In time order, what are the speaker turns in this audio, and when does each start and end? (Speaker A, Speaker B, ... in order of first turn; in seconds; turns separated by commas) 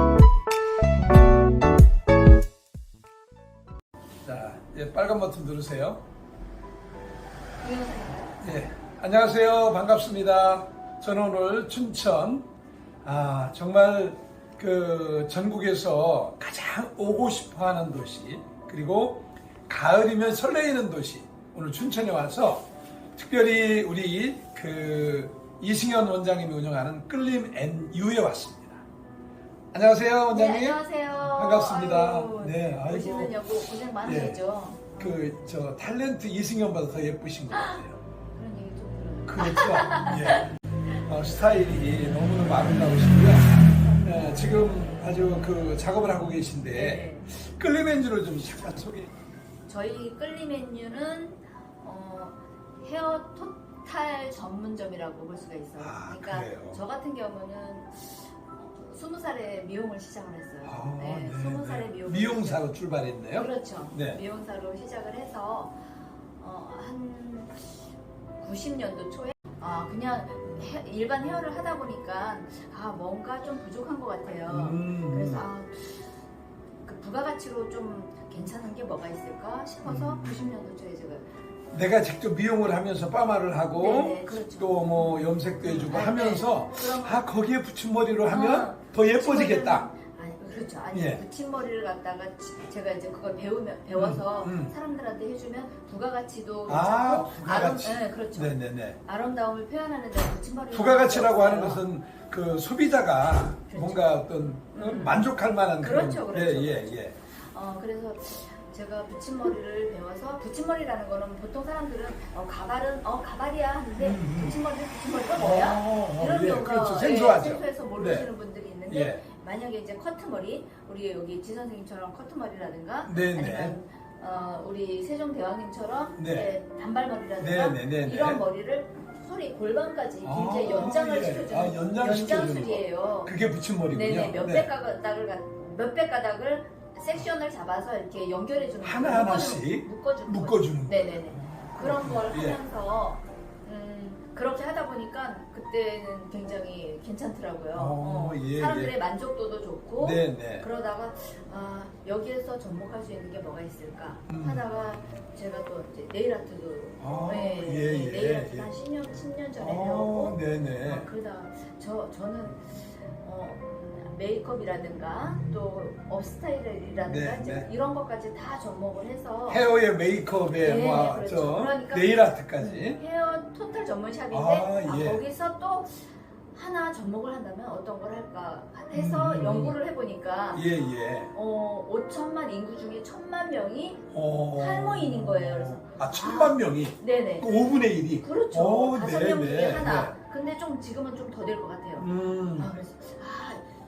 Speaker A: 4.2-6.0, Speaker B: 7.6-8.4, Speaker A: 8.4-12.5, Speaker A: 13.0-28.9, Speaker A: 29.7-33.4, Speaker B: 30.3-35.2, Speaker A: 34.0-34.4, Speaker A: 35.0-38.0, Speaker B: 37.5-37.8, Speaker B: 38.3-40.5, Speaker A: 39.3-40.5, Speaker A: 41.0-49.1, Speaker B: 46.7-47.3, Speaker B: 49.7-62.6, Speaker A: 55.8-56.8, Speaker A: 60.6-64.2, Speaker B: 63.3-65.8, Speaker B: 66.4-67.8, Speaker B: 68.4-76.1, Speaker A: 74.5-75.5, Speaker B: 76.8-81.3, Speaker A: 79.8-80.5, Speaker A: 81.7-89.9, Speaker B: 83.8-87.3, Speaker B: 88.3-101.8, Speaker A: 90.9-91.2, Speaker A: 93.9-94.7, Speaker A: 96.7-99.0, Speaker A: 100.7-107.2, Speaker B: 103.7-104.2, Speaker B: 104.7-133.3, Speaker A: 114.0-114.6, Speaker A: 115.3-118.3, Speaker A: 118.9-119.2, Speaker A: 123.1-123.8, Speaker A: 126.2-126.5, Speaker A: 127.4-128.4, Speaker A: 130.2-134.7, Speaker B: 133.9-169.7, Speaker A: 138.8-142.6, Speaker A: 147.7-148.9, Speaker A: 150.0-150.7, Speaker A: 154.3-154.7, Speaker A: 157.0-158.7, Speaker A: 159.6-161.1, Speaker A: 167.0-167.7, Speaker A: 169.5-173.0, Speaker B: 170.6-180.7, Speaker A: 174.3-175.2, Speaker A: 178.9-179.8, Speaker A: 180.5-181.3, Speaker B: 181.3-187.5, Speaker A: 184.1-190.1, Speaker B: 188.2-193.6, Speaker A: 192.0-192.7